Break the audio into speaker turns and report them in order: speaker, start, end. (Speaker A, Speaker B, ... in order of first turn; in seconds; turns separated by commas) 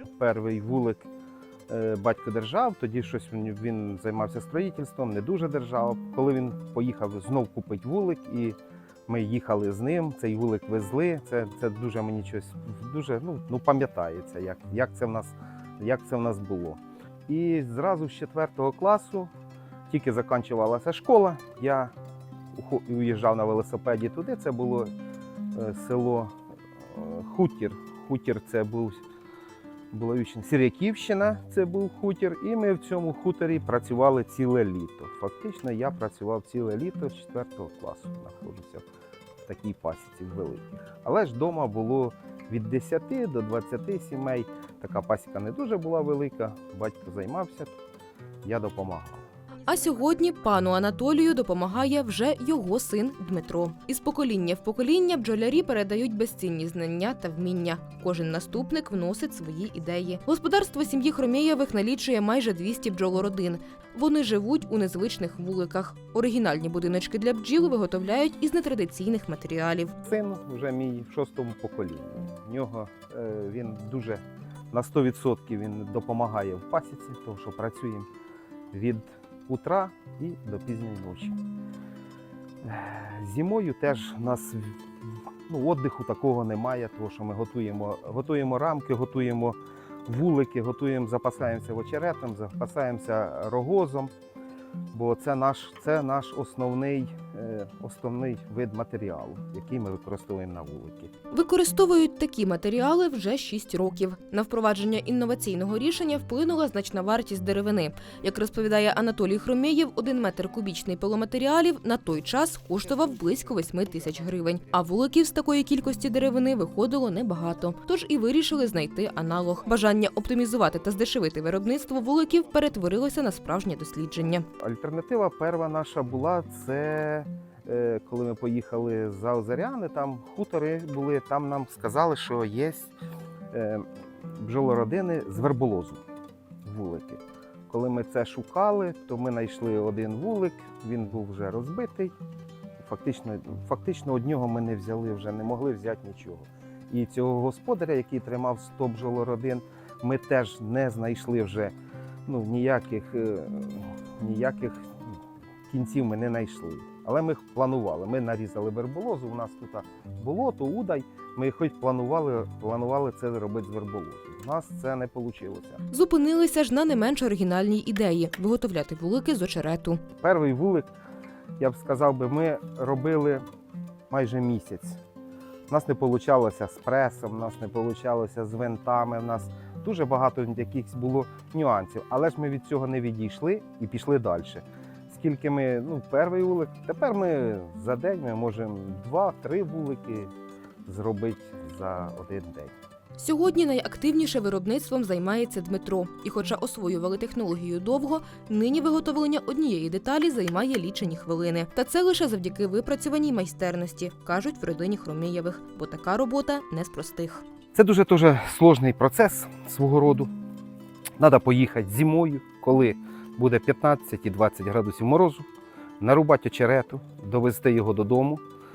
Speaker A: 0.2-1.1, Speaker A: 1.7-8.6, Speaker A: 9.1-19.3, Speaker A: 19.9-21.9, Speaker A: 22.5-24.9, Speaker A: 25.5-26.3, Speaker A: 26.8-29.0, Speaker A: 29.9-38.8, Speaker A: 39.5-47.7, Speaker A: 48.4-49.2, Speaker B: 49.7-70.0, Speaker A: 70.0-78.1, Speaker A: 78.7-81.4, Speaker A: 82.6-84.8, Speaker A: 85.5-94.1, Speaker A: 94.9-101.1, Speaker B: 101.3-124.5, Speaker A: 124.6-132.9, Speaker A: 133.5-136.0, Speaker A: 136.6-142.1, Speaker A: 142.8-151.7, Speaker A: 152.2-154.9, Speaker A: 155.7-165.8, Speaker B: 165.9-170.0, Speaker A: 170.2-170.9, Speaker A: 171.6-173.4, Speaker A: 174.1-175.0, Speaker A: 175.7-190.3, Speaker A: 190.8-192.7, Speaker B: 193.2-207.4, Speaker A: 207.7-210.3, Speaker A: 211.2-215.4, Speaker A: 216.0-218.4